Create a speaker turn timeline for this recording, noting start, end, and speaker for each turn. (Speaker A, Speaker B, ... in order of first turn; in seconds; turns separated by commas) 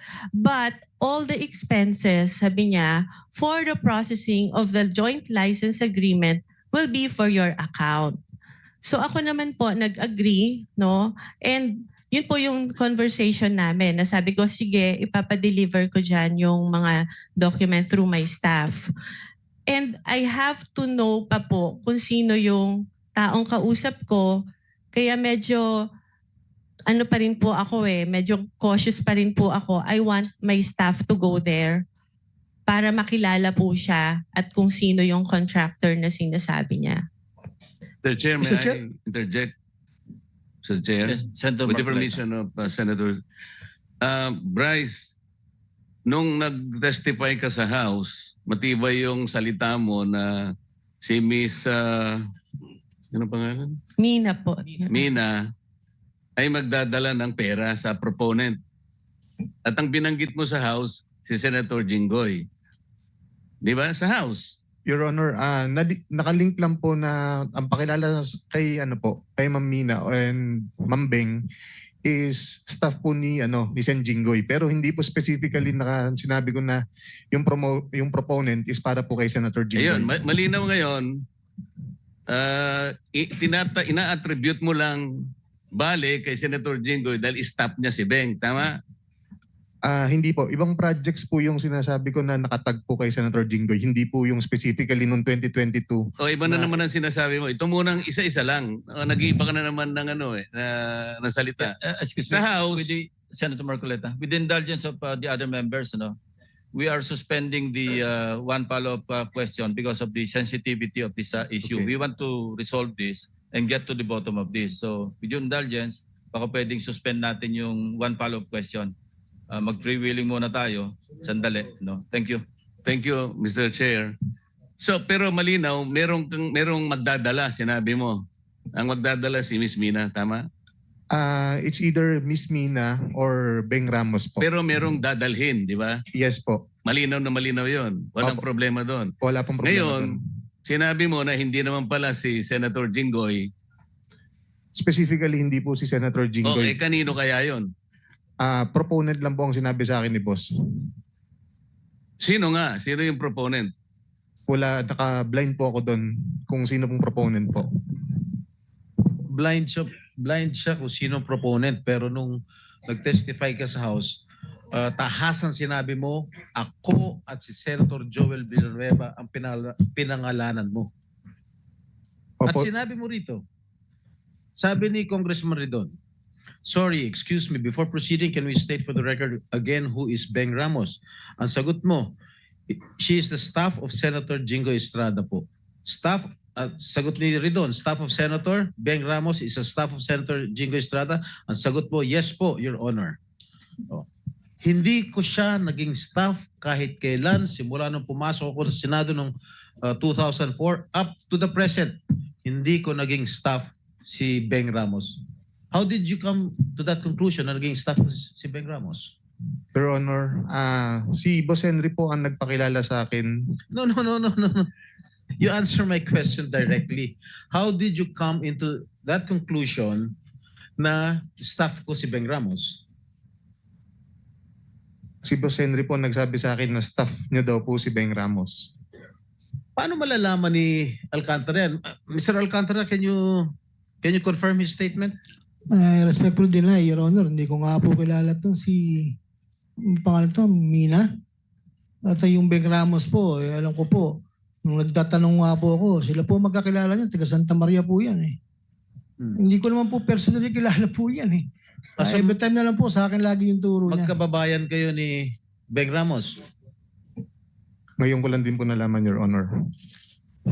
Speaker A: 0.4-8.2, Speaker A: 8.8-18.9, Speaker A: 19.7-25.9, Speaker A: 26.9-31.8, Speaker A: 32.7-37.0, Speaker B: 38.0-39.5, Speaker C: 38.4-38.8, Speaker B: 40.6-43.2, Speaker D: 41.0-42.2, Speaker B: 44.0-45.1, Speaker B: 46.1-52.3, Speaker B: 53.1-53.8, Speaker A: 54.0-54.9, Speaker E: 54.6-55.0, Speaker B: 54.9-55.4, Speaker B: 56.4-58.6, Speaker B: 59.6-62.5, Speaker B: 63.6-64.5, Speaker C: 64.9-71.5, Speaker C: 72.0-80.1, Speaker B: 79.8-81.1, Speaker B: 82.3-88.8, Speaker C: 89.8-96.8, Speaker B: 96.2-101.8, Speaker D: 101.6-106.2, Speaker B: 102.3-103.0, Speaker D: 106.7-118.9, Speaker B: 111.6-111.9, Speaker D: 119.5-122.4, Speaker B: 122.9-124.1, Speaker B: 124.8-128.2, Speaker B: 128.8-130.4, Speaker C: 131.1-134.4, Speaker B: 134.4-136.0, Speaker C: 136.1-136.7, Speaker B: 136.9-139.1, Speaker C: 139.2-140.2, Speaker B: 139.6-143.5, Speaker C: 144.7-146.8, Speaker B: 146.4-147.7, Speaker C: 148.4-150.9, Speaker B: 152.2-153.7, Speaker C: 154.5-158.2, Speaker E: 159.3-164.2, Speaker E: 164.7-170.9, Speaker C: 172.4-172.7, Speaker E: 172.5-173.4, Speaker E: 174.6-175.9, Speaker E: 176.6-182.1, Speaker E: 182.7-193.2, Speaker E: 194.6-205.2, Speaker E: 205.7-209.1, Speaker C: 209.8-213.6, Speaker E: 213.7-214.7, Speaker E: 215.4-220.1, Speaker E: 220.8-222.8, Speaker C: 225.2-228.7, Speaker E: 229.8-235.2, Speaker F: 235.7-239.2, Speaker F: 239.9-241.1, Speaker F: 242.1-248.4, Speaker F: 249.4-254.1, Speaker E: 252.0-252.4, Speaker E: 253.9-256.4, Speaker C: 258.0-259.7